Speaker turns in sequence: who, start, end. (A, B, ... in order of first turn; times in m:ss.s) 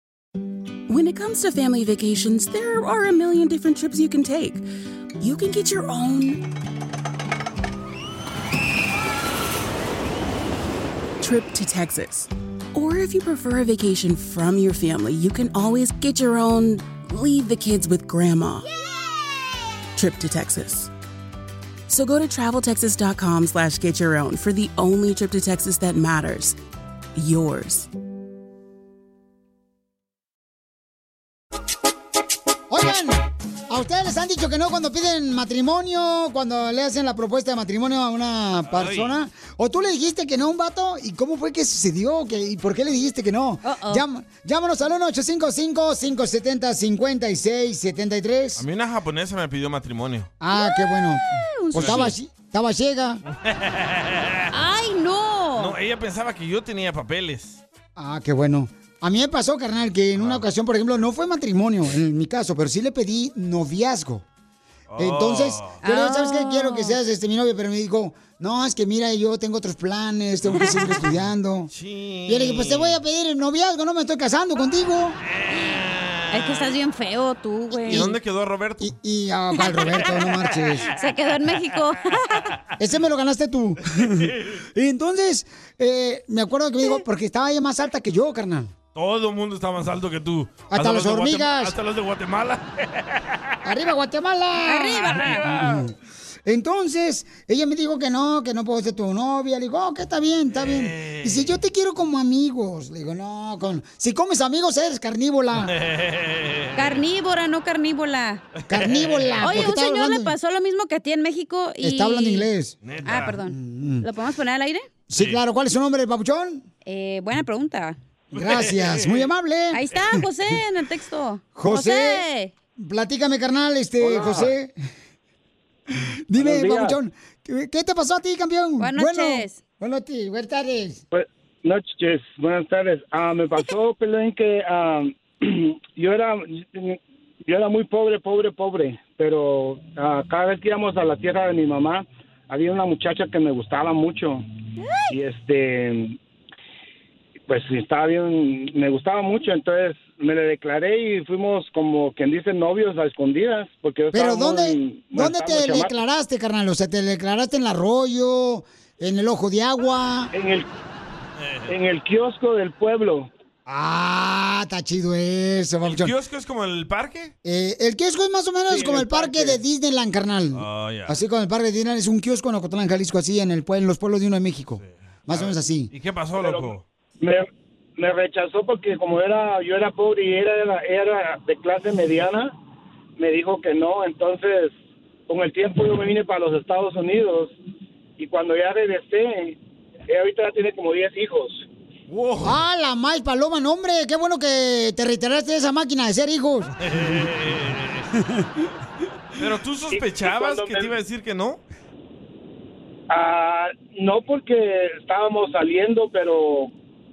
0:00.9-0:04.6 A
0:05.2-0:06.4 A
0:11.2-0:18.7 A
0:20.0-0:20.9 A
0:21.9-0:26.6 A
0:27.2-0:27.9 A
0:32.7-0:33.2 B
0:33.7-0:48.6 B
0:38.7-0:39.2 C
0:43.6-0:44.0 D
0:48.6-0:50.3 C
0:50.4-0:53.2 B
0:50.5-0:52.1 D
0:51.8-0:52.1 C
0:53.4-0:54.5 C
0:54.5-0:55.7 D
0:55.6-0:57.6 C
0:58.0-1:04.2 B
1:00.2-1:00.4 C
1:04.9-1:05.8 C
1:05.0-1:11.7 B
1:05.8-1:07.0 D
1:10.6-1:11.0 D
1:11.7-1:13.0 C
1:12.3-1:15.2 B
1:15.3-1:16.7 C
1:16.3-1:18.1 D
1:17.7-1:18.1 B
1:17.9-1:18.9 C
1:18.8-1:20.9 B
1:21.0-1:22.4 D
1:22.8-1:28.7 B
1:24.0-1:24.6 C
1:29.0-1:33.4 C
1:30.7-1:31.8 B
1:33.6-1:35.9 B
1:34.7-1:35.5 D
1:35.3-1:35.8 C
1:36.5-1:45.7 B
1:40.5-1:41.6 C
1:45.6-1:47.0 C
1:46.8-1:48.4 D
1:48.6-1:49.6 C
1:48.7-1:50.3 B
1:49.4-1:52.5 D
1:51.8-1:52.8 B
1:52.8-1:53.4 C
1:53.0-1:54.9 D
1:53.5-1:54.1 B
1:55.1-1:56.6 B
1:55.1-1:55.4 C
1:56.9-1:58.0 D
1:58.3-2:00.2 B
1:58.3-1:59.3 C
1:59.7-2:02.5 D
2:01.6-2:02.2 B
2:02.8-2:04.7 B
2:04.0-2:04.5 E
2:06.3-2:11.0 B
2:06.4-2:07.0 E
2:08.8-2:09.6 D
2:11.1-2:24.4 E
2:24.8-2:25.1 D
2:25.1-2:26.2 E
2:27.5-2:36.0 E
2:34.1-2:40.3 B
2:40.3-2:40.7 E
2:41.4-2:41.7 C
2:41.7-2:43.3 E
2:43.7-2:46.1 B
2:45.8-2:47.3 C
2:47.4-2:55.9 B
2:50.5-2:51.2 C
2:54.8-2:56.8 C
2:56.4-3:02.5 E
3:03.2-3:04.8 E
3:05.3-3:07.6 E
3:08.2-3:11.7 E
3:12.1-3:12.6 C
3:12.4-3:16.7 B
3:16.8-3:18.1 C
3:19.4-3:21.6 C
3:19.9-3:20.9 E
3:23.1-3:26.7 E